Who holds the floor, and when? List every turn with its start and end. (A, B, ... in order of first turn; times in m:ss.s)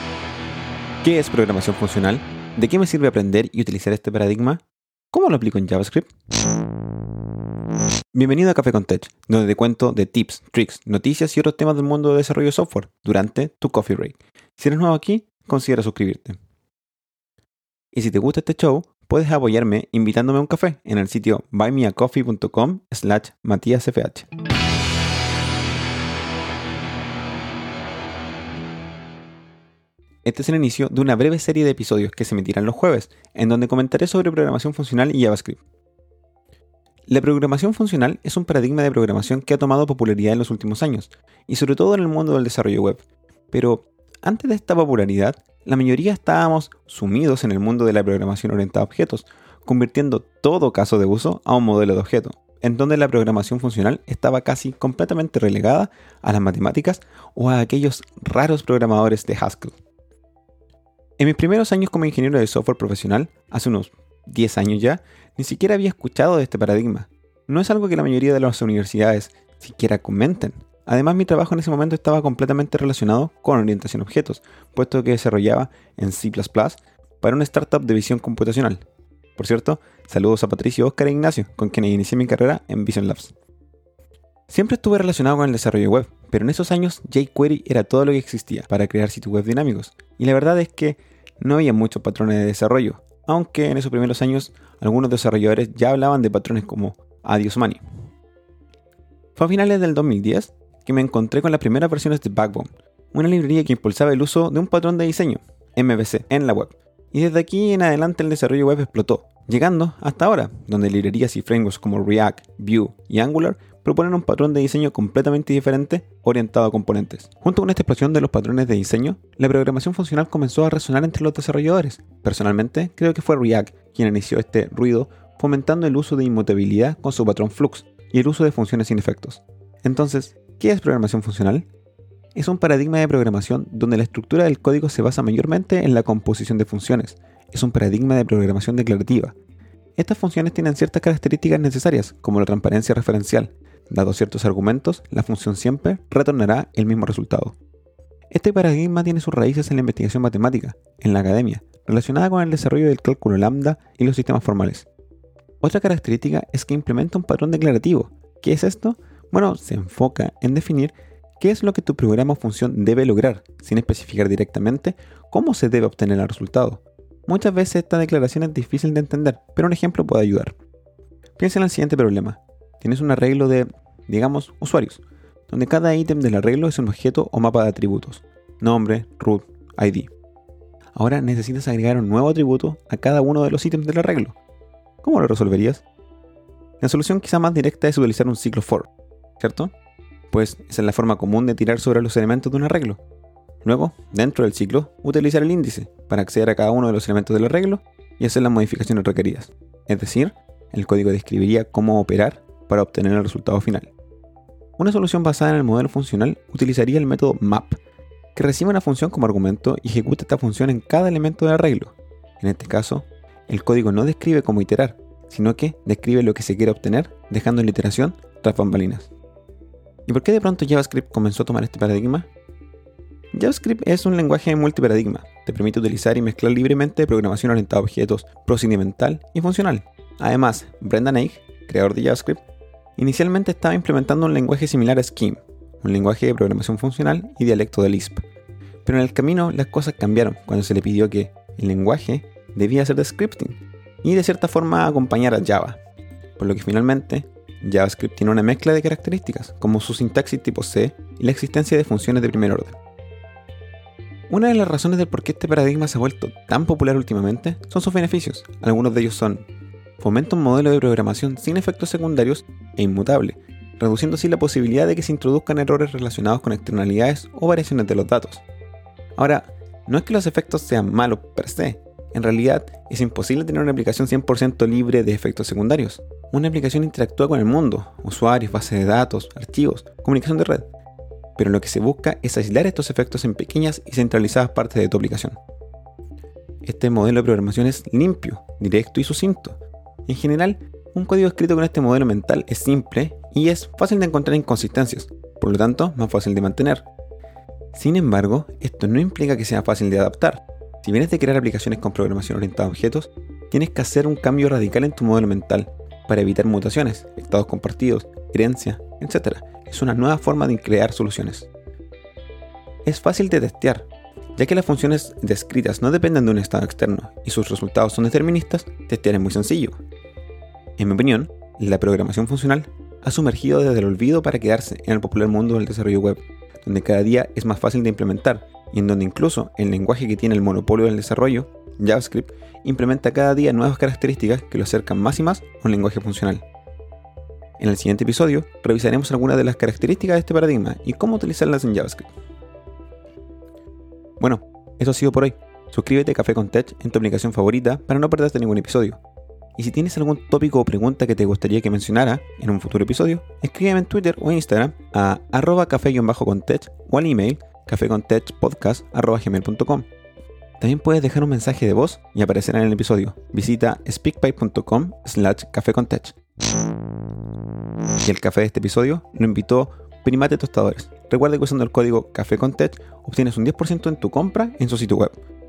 0:01.0-0:06.1 A
0:08.1-0:16.4 A
0:17.9-0:24.3 A
0:30.2-0:35.6 A
0:37.1-0:59.8 A
1:01.2-1:18.8 A
1:19.4-1:23.3 A
1:24.5-1:37.8 A
1:39.4-2:11.7 A
2:12.3-2:19.4 A
2:20.0-2:27.6 A
2:28.3-2:34.9 A
2:35.6-2:50.5 A
2:51.4-3:00.1 A
3:00.9-3:04.4 A
3:05.0-3:05.8 A
3:06.8-3:09.7 A
3:10.3-3:13.0 A
3:13.6-3:23.9 A
3:24.8-3:27.8 A
3:28.3-3:39.1 A
3:40.0-3:42.3 A
3:43.3-3:52.4 A
3:53.0-3:58.2 A
3:58.8-4:05.8 A
4:06.4-4:12.8 A
4:14.3-4:19.5 A
4:20.0-4:28.4 A
4:29.2-4:40.7 A
4:41.4-4:45.4 A
4:46.6-4:56.9 A
4:57.7-5:11.5 A
5:12.8-5:19.8 A
5:20.8-5:36.4 A
5:37.6-5:42.1 A
5:44.2-5:49.0 A
5:49.6-5:59.9 A
6:00.6-6:06.2 A
6:08.0-6:15.2 A